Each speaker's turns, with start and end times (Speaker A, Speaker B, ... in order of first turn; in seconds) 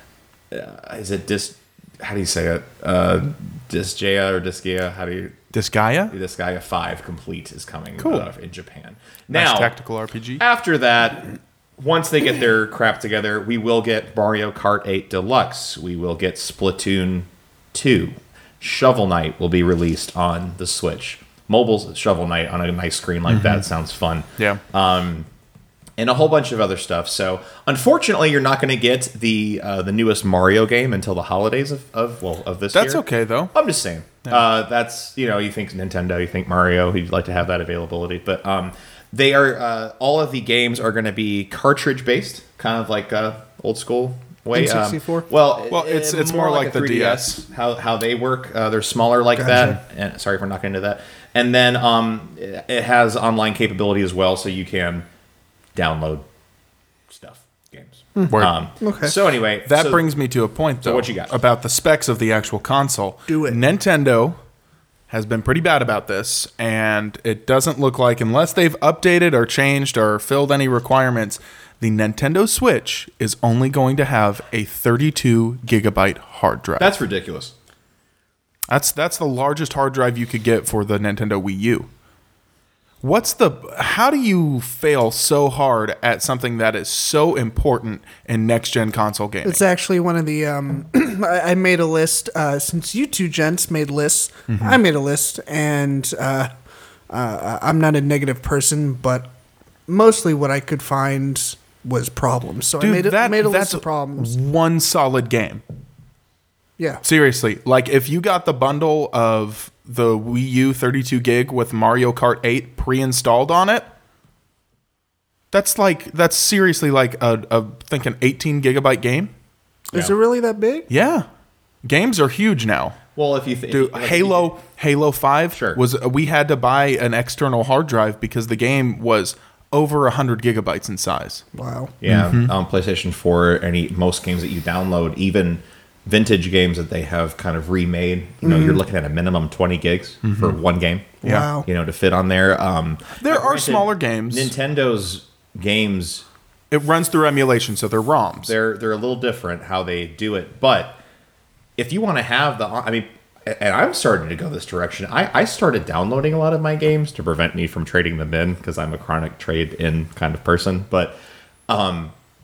Speaker A: 0.5-5.4, 6.1-9.7, 10.4-25.3, 26.0-55.1, 55.7-56.2, 57.1-60.0, 60.8-61.4, 76.8-77.5, 123.1-124.5, 125.5-125.8, 132.0-146.2, 148.4-151.0, 151.8-161.2, 161.7-162.1
Speaker B: 5.5-6.1, 8.0-8.3, 9.3-10.4, 23.3-23.6, 32.7-33.5, 45.6-47.4, 58.3-58.5, 59.6-64.4, 65.1-76.9, 78.7-81.9, 83.0-89.6, 94.5-94.8, 102.8-105.6, 107.0-113.9, 115.5-119.3, 120.9-121.2, 121.8-123.0, 123.7-131.4, 132.1-132.5, 140.2-140.6, 143.2-144.5, 146.7-148.5
Speaker C: 44.5-45.3, 49.4-49.8, 58.1-59.1, 63.3-63.6, 89.4-96.5, 97.1-99.3, 99.9-104.3, 106.8-107.0, 119.9-120.9, 131.5-131.9, 138.4-138.8, 141.2-141.7